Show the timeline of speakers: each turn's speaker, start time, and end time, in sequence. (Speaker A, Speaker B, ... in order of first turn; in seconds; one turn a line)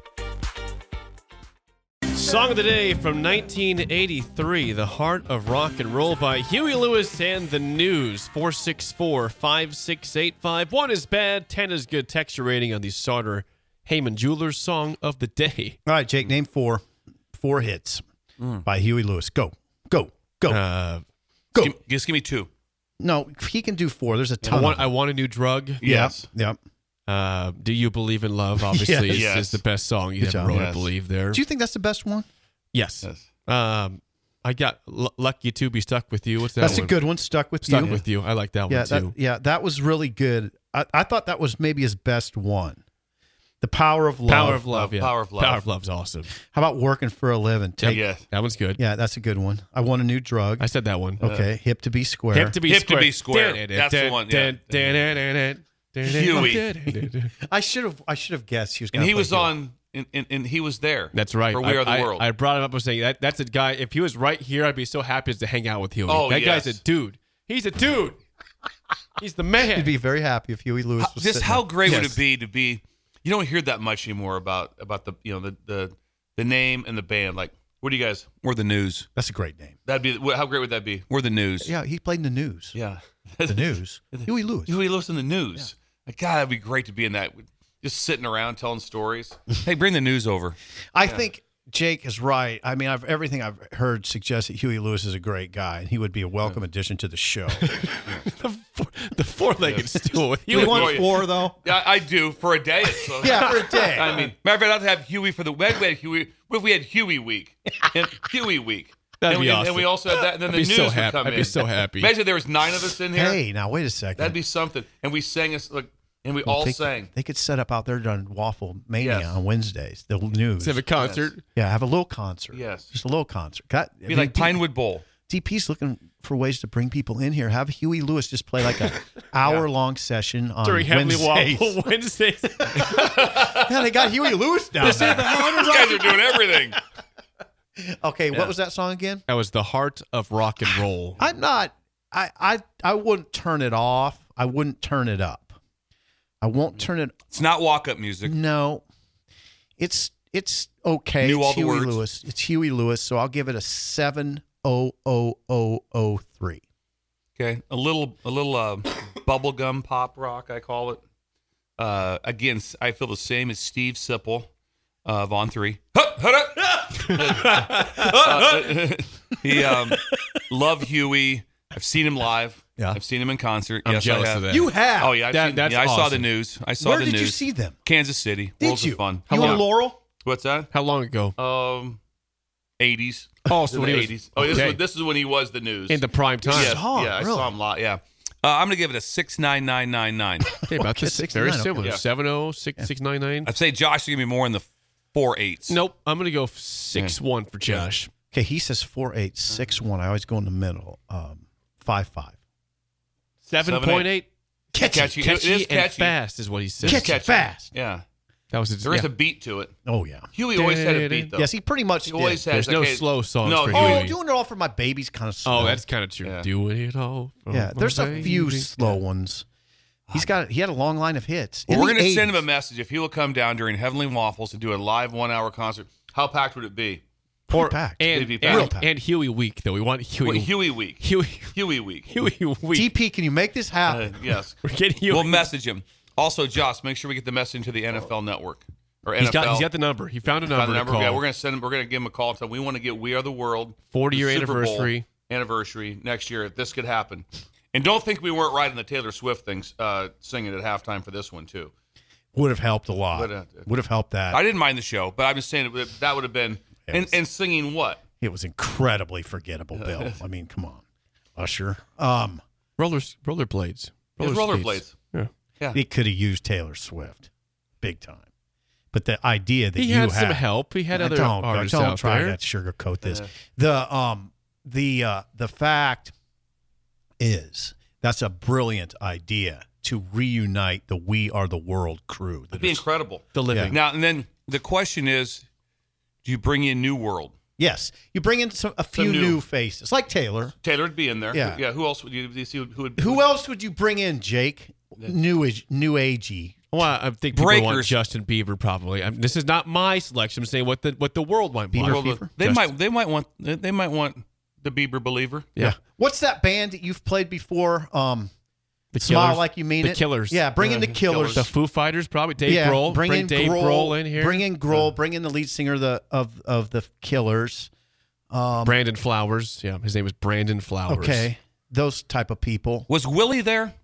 Speaker A: 2.1-15.8
Speaker B: 15.8-16.8
Speaker B: 17.4-18.0
Speaker B: 18.6-20.6
Speaker A: 20.5-21.0
Speaker C: 21.6-22.5
Speaker B: 23.0-24.9
Speaker A: 24.4-25.8
Speaker C: 25.8-26.3
Speaker B: 25.8-26.6
Speaker A: 27.1-31.4
Speaker B: 28.6-29.3
Speaker C: 29.1-29.6
Speaker B: 30.2-30.6
Speaker C: 30.5-30.9
Speaker B: 31.3-32.3
Speaker A: 32.7-39.1
Speaker B: 36.6-38.0
Speaker B: 38.7-42.8
Speaker B: 43.6-44.6
Speaker A: 44.2-46.3
Speaker C: 44.4-45.6
Speaker B: 46.4-48.0
Speaker A: 47.8-48.8
Speaker C: 47.9-48.2
Speaker B: 48.8-50.6
Speaker A: 50.6-51.2
Speaker B: 51.2-52.6
Speaker C: 51.2-51.5
Speaker A: 52.3-57.3
Speaker C: 52.6-55.0
Speaker C: 56.0-56.6
Speaker B: 56.3-59.5
Speaker C: 58.9-62.3
Speaker A: 61.1-68.2
Speaker C: 66.1-66.8
Speaker A: 69.2-69.9
Speaker B: 69.7-72.1
Speaker C: 71.0-79.1
Speaker A: 71.8-72.1
Speaker B: 79.2-79.8
Speaker C: 79.8-81.7
Speaker B: 81.6-82.8
Speaker C: 82.7-91.2
Speaker B: 83.5-84.8
Speaker B: 90.9-97.7
Speaker A: 97.5-101.2
Speaker C: 99.6-99.9
Speaker C: 100.4-113.4
Speaker B: 100.5-101.6
Speaker A: 103.2-103.6
Speaker B: 103.2-104.3
Speaker A: 109.2-112.1
Speaker B: 113.1-114.4
Speaker C: 114.2-117.1
Speaker B: 116.4-120.9
Speaker C: 119.0-119.4
Speaker A: 120.6-121.4
Speaker C: 121.0-121.3
Speaker B: 121.5-124.7
Speaker C: 122.5-122.9
Speaker C: 124.1-125.0
Speaker B: 125.3-131.8
Speaker A: 130.6-132.8
Speaker B: 132.6-136.7
Speaker C: 132.8-133.7
Speaker A: 134.8-135.8
Speaker C: 134.8-136.8
Speaker B: 137.8-139.2
Speaker A: 139.3-141.2
Speaker B: 141.2-145.6
Speaker B: 146.4-147.1
Speaker C: 147.3-148.3
Speaker B: 148.2-148.8
Speaker B: 149.8-156.6
Speaker C: 151.2-152.0
Speaker C: 157.4-161.0
Speaker C: 161.8-164.5
Speaker C: 165.1-179.7
Speaker A: 167.3-168.5
Speaker B: 169.9-170.1
Speaker A: 173.8-174.7
Speaker B: 174.5-175.2
Speaker A: 175.2-176.3
Speaker B: 176.8-177.8
Speaker B: 178.6-180.0
Speaker A: 179.3-179.6
Speaker C: 180.2-180.7
Speaker A: 180.7-181.3
Speaker C: 181.3-182.0
Speaker C: 182.8-190.5
Speaker A: 183.5-184.8
Speaker A: 185.9-186.8
Speaker B: 186.4-187.5
Speaker B: 190.6-192.0
Speaker A: 190.7-193.5
Speaker C: 193.4-195.8
Speaker A: 195.7-198.1
Speaker B: 198.3-202.3
Speaker C: 199.5-199.8
Speaker A: 203.4-204.3
Speaker C: 203.6-204.1
Speaker B: 204.7-205.2
Speaker C: 204.8-206.2
Speaker A: 205.2-207.1
Speaker C: 206.8-208.0
Speaker B: 206.8-207.7
Speaker A: 208.5-209.1
Speaker C: 208.8-209.7
Speaker B: 209.8-210.3
Speaker C: 210.3-211.5
Speaker A: 210.5-211.3
Speaker B: 211.3-212.5
Speaker C: 212.0-214.1
Speaker A: 212.5-214.2
Speaker B: 213.7-215.8
Speaker A: 215.4-219.0
Speaker C: 216.2-216.5
Speaker B: 217.5-219.4
Speaker C: 220.1-220.4
Speaker B: 220.1-222.4
Speaker C: 221.7-227.0
Speaker B: 227.5-228.9
Speaker A: 227.5-231.6
Speaker C: 228.1-228.7
Speaker C: 230.2-232.3
Speaker A: 232.1-232.9
Speaker B: 232.7-234.2
Speaker C: 233.9-239.7
Speaker A: 234.6-235.5
Speaker A: 239.2-241.2
Speaker C: 240.4-251.7
Speaker A: 243.9-245.1
Speaker B: 252.3-254.4
Speaker C: 253.1-253.7
Speaker C: 254.3-258.0
Speaker B: 256.8-257.2
Speaker B: 258.2-260.8
Speaker C: 259.7-260.1
Speaker B: 261.4-262.4
Speaker A: 262.8-265.3
Speaker C: 264.2-265.0
Speaker B: 265.7-267.3
Speaker B: 267.8-268.2
Speaker B: 268.9-276.1
Speaker A: 269.7-272.4
Speaker C: 273.0-273.3
Speaker B: 277.2-282.8
Speaker C: 282.5-285.4
Speaker A: 283.3-283.8
Speaker B: 283.4-283.7
Speaker C: 286.2-287.3
Speaker B: 287.6-290.6
Speaker C: 288.9-289.4
Speaker C: 290.6-293.2
Speaker B: 291.3-291.6
Speaker B: 293.0-296.6
Speaker A: 296.7-302.7
Speaker C: 297.3-297.9
Speaker B: 301.7-302.3
Speaker C: 301.8-305.5
Speaker B: 305.6-308.3
Speaker A: 308.9-310.5
Speaker B: 309.0-311.5
Speaker C: 310.6-311.5
Speaker A: 311.3-314.4
Speaker B: 312.4-317.7
Speaker B: 318.3-318.8
Speaker A: 318.6-321.3
Speaker B: 320.9-322.9
Speaker C: 322.9-323.7